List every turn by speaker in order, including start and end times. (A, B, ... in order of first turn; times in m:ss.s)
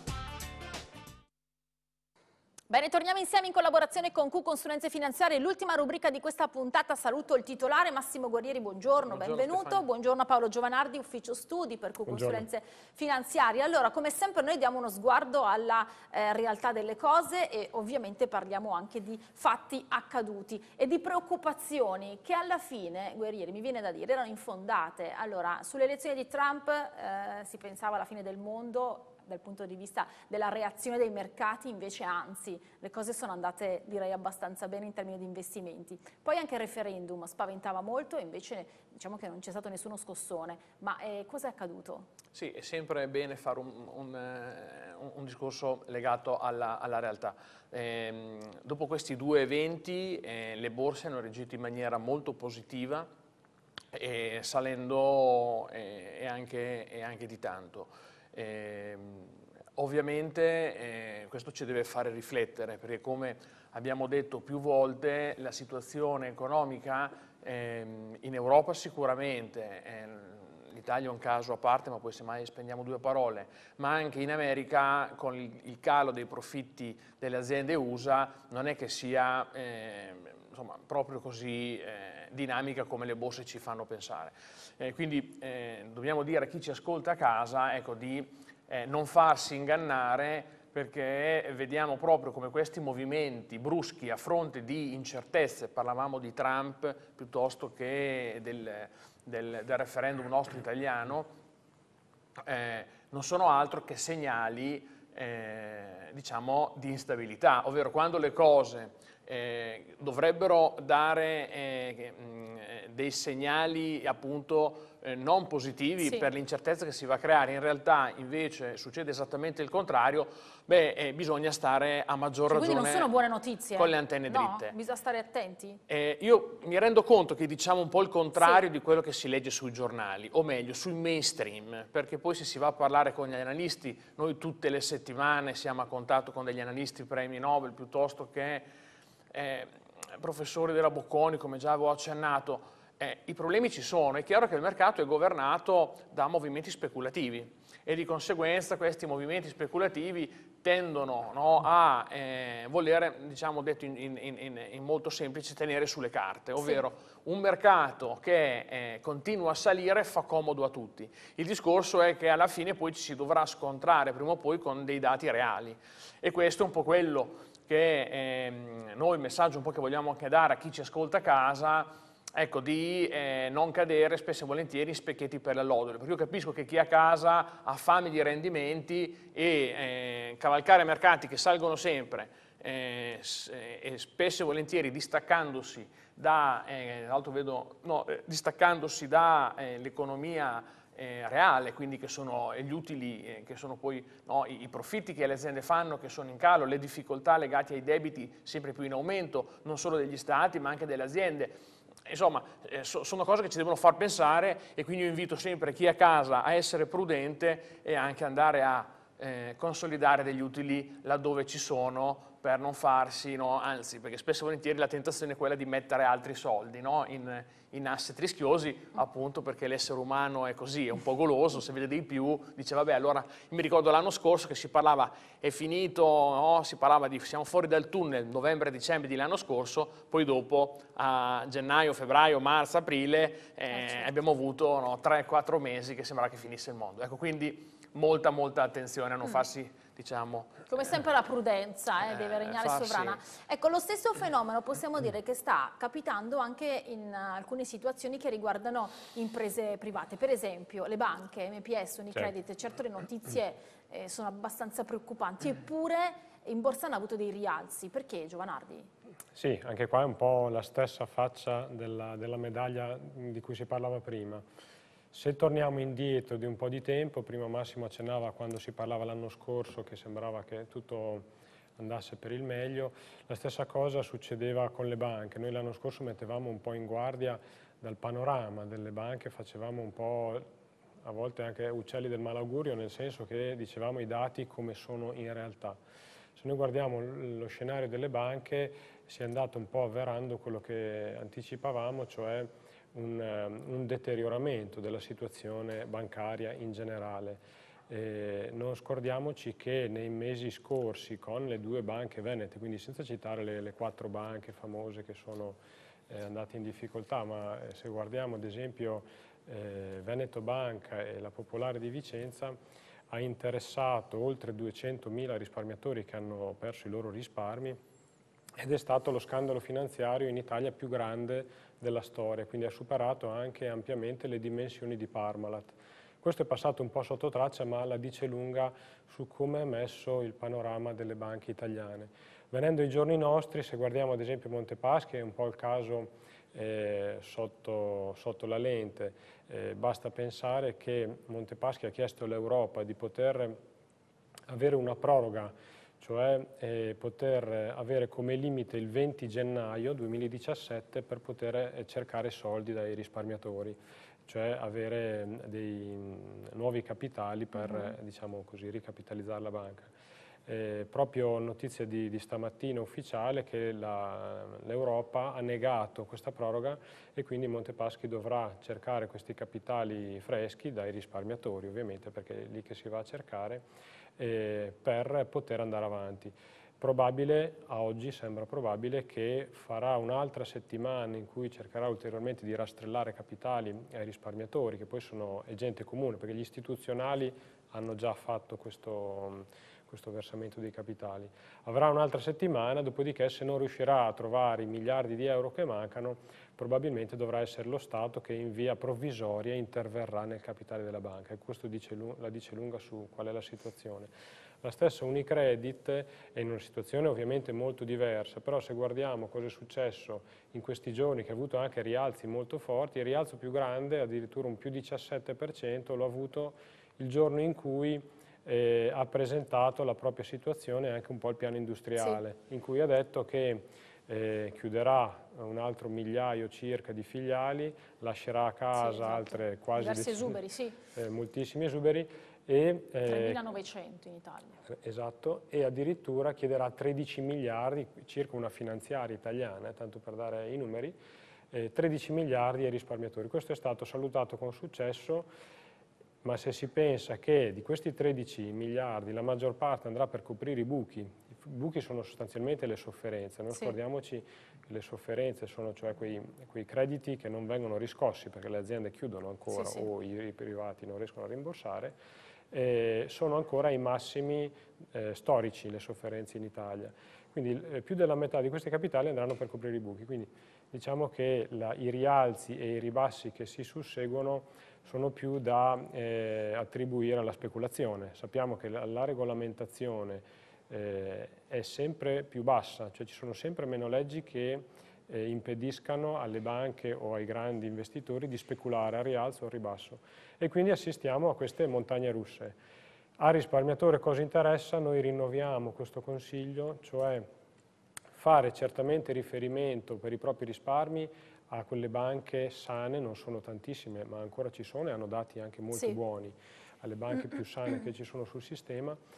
0:02.7-0:42.1 A
0:09.0-0:09.8 B
0:12.1-0:12.5 C
0:42.3-0:53.1 B
0:53.9-1:41.3 B
1:42.4-2:03.1 B
1:56.0-1:56.3 A
2:02.5-2:05.8 A
2:03.8-2:04.8 B
2:05.9-2:18.7 B
2:08.4-2:08.6 A
2:19.3-4:00.6 B
3:53.7-3:54.1 A
4:00.7-4:18.9 A
4:02.0-4:03.2 B
4:19.4-4:24.4 C
4:25.1-4:31.2 C
4:31.8-4:40.5 C
4:41.0-4:45.8 C
4:46.4-5:12.6 C
5:13.1-5:17.8 C
5:18.6-5:43.6 C
5:44.5-5:59.9 C
5:57.6-5:57.9 A
6:00.5-6:13.7 C
6:14.2-6:44.1 C
6:44.6-7:10.4 C
7:08.8-7:10.8 A
7:10.9-7:13.4 C
7:13.0-7:14.6 A
7:14.7-7:21.0 C
7:21.5-7:25.3 C
7:26.2-7:42.0 C
7:39.5-7:39.9 A
7:42.5-8:12.6 C
8:13.2-8:17.3 C
8:18.1-8:29.0 C
8:25.7-8:26.0 A